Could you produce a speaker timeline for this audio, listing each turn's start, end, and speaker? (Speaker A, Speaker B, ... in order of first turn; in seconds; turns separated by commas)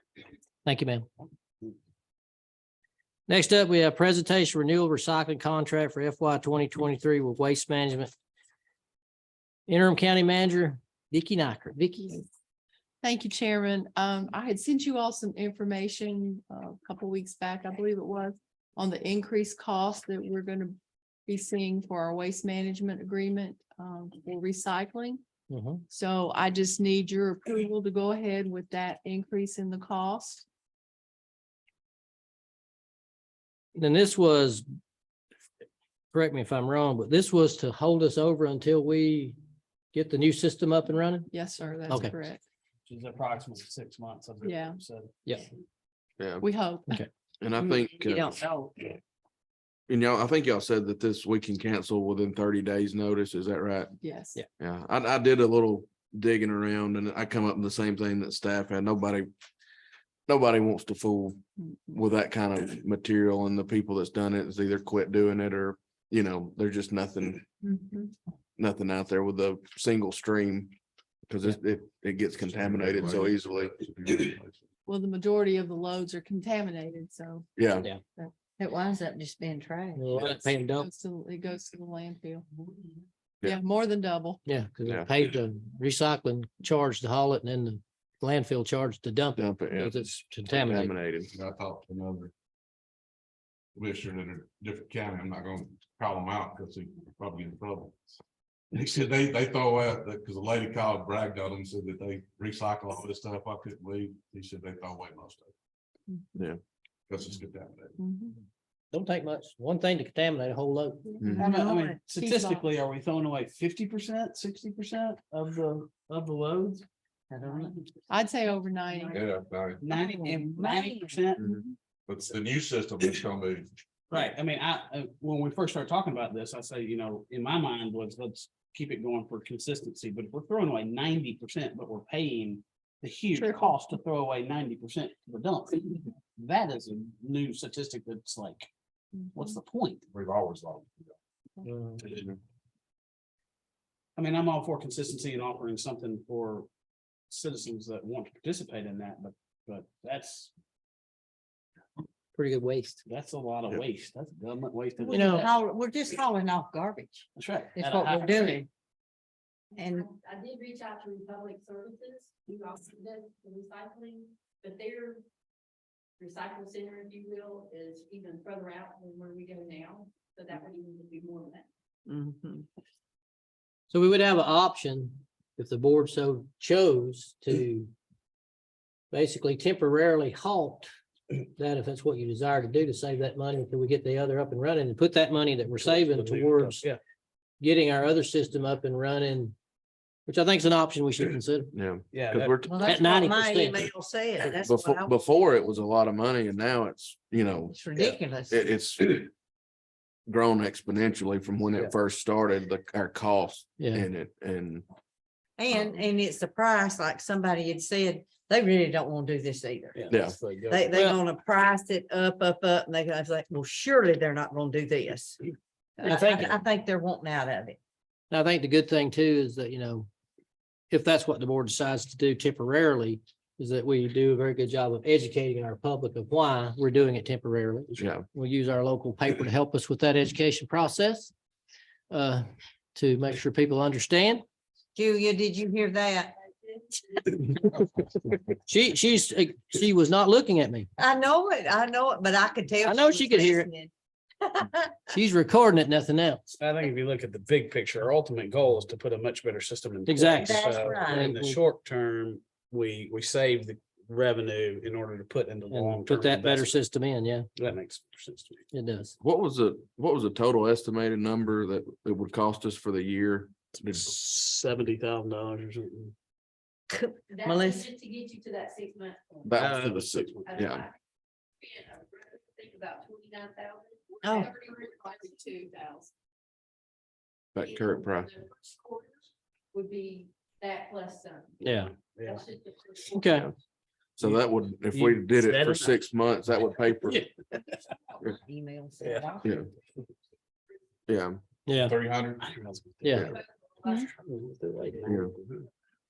Speaker A: 0.6-1.1, Speaker A: 3.3-8.1, Speaker A: 9.7-12.2, Speaker B: 13.0-25.2, Speaker A: 25.5-25.8, Speaker B: 25.9-30.4, Speaker A: 33.7-34.6, Speaker A: 36.1-39.4, Speaker A: 39.9-41.3, Speaker B: 41.3-42.4, Speaker C: 42.9-45.1, Speaker B: 44.4-44.8, Speaker D: 46.2-46.5, Speaker B: 46.4-47.0, Speaker D: 47.4-48.4, Speaker E: 47.6-48.7, Speaker D: 49.9-54.0, Speaker B: 54.0-54.4, Speaker D: 54.6-59.3, Speaker D: 60.3-61.4, Speaker B: 61.6-61.9, Speaker D: 61.9-67.4, Speaker B: 67.6-68.1, Speaker D: 68.6-70.7, Speaker D: 71.3-73.7, Speaker F: 72.5-74.6, Speaker B: 74.8-77.5, Speaker D: 77.6-77.9, Speaker E: 78.6-80.1, Speaker A: 80.0-80.9, Speaker B: 80.8-82.5, Speaker B: 83.4-84.4, Speaker A: 84.5-90.9, Speaker D: 89.3-91.3, Speaker F: 91.3-92.3, Speaker F: 93.8-98.1, Speaker F: 98.7-105.5, Speaker F: 107.1-108.0, Speaker B: 108.0-108.4, Speaker A: 108.9-111.3, Speaker D: 111.2-111.5, Speaker C: 111.4-116.8, Speaker E: 111.4-112.0, Speaker B: 112.2-112.6, Speaker E: 117.3-117.7, Speaker B: 118.1-119.2, Speaker F: 119.1-119.8, Speaker C: 119.8-121.6, Speaker E: 120.0-121.2, Speaker F: 122.1-123.7, Speaker C: 124.1-138.7, Speaker B: 133.3-133.7, Speaker B: 139.2-139.4, Speaker C: 139.3-140.0, Speaker F: 140.1-141.1, Speaker F: 142.0-142.3, Speaker C: 144.2-146.7, Speaker C: 147.3-150.5, Speaker A: 152.3-153.0, Speaker C: 153.0-155.5, Speaker E: 155.0-158.7, Speaker A: 155.1-155.5, Speaker C: 157.4-158.7, Speaker E: 159.8-160.1, Speaker G: 159.8-165.2, Speaker G: 166.2-171.7, Speaker E: 172.1-172.6, Speaker A: 173.9-177.9, Speaker A: 179.1-180.9, Speaker A: 181.6-186.8, Speaker C: 185.9-187.0, Speaker A: 187.6-189.5, Speaker A: 190.3-191.7, Speaker D: 191.7-192.9, Speaker C: 192.1-192.6, Speaker E: 192.6-195.1, Speaker A: 192.8-193.9, Speaker D: 194.4-197.8, Speaker E: 197.7-198.7, Speaker D: 198.5-199.3, Speaker D: 200.3-204.8, Speaker A: 203.8-204.1, Speaker E: 205.6-209.9, Speaker C: 209.9-210.9, Speaker D: 210.1-210.4, Speaker E: 210.7-215.4, Speaker E: 216.0-217.8, Speaker A: 216.0-216.6, Speaker A: 218.3-220.1, Speaker A: 220.9-231.3, Speaker D: 228.0-228.2, Speaker A: 232.1-234.4, Speaker E: 234.9-236.4, Speaker A: 238.5-240.9, Speaker E: 241.0-243.9, Speaker A: 242.8-243.7, Speaker E: 244.4-244.9, Speaker A: 245.1-246.4, Speaker C: 246.6-256.7, Speaker A: 250.1-251.6, Speaker E: 250.4-251.2, Speaker A: 255.7-257.5, Speaker C: 257.6-258.6, Speaker A: 258.7-259.1, Speaker D: 259.2-264.1, Speaker C: 263.9-266.1, Speaker E: 266.9-267.8, Speaker G: 267.3-269.5, Speaker D: 269.4-270.9, Speaker C: 269.5-270.5, Speaker G: 270.5-270.9, Speaker G: 271.6-275.9, Speaker E: 274.2-274.5, Speaker B: 274.8-276.1, Speaker D: 277.5-278.3, Speaker G: 278.4-281.6, Speaker A: 281.6-281.9, Speaker C: 281.9-282.4, Speaker G: 282.2-283.5, Speaker A: 283.1-283.5, Speaker D: 284.2-287.3, Speaker C: 284.2-286.0, Speaker E: 288.4-289.5, Speaker C: 289.0-289.4, Speaker D: 291.1-291.4, Speaker A: 291.7-291.9, Speaker F: 291.8-292.4, Speaker C: 292.4-295.7, Speaker A: 293.0-293.3, Speaker D: 295.1-295.3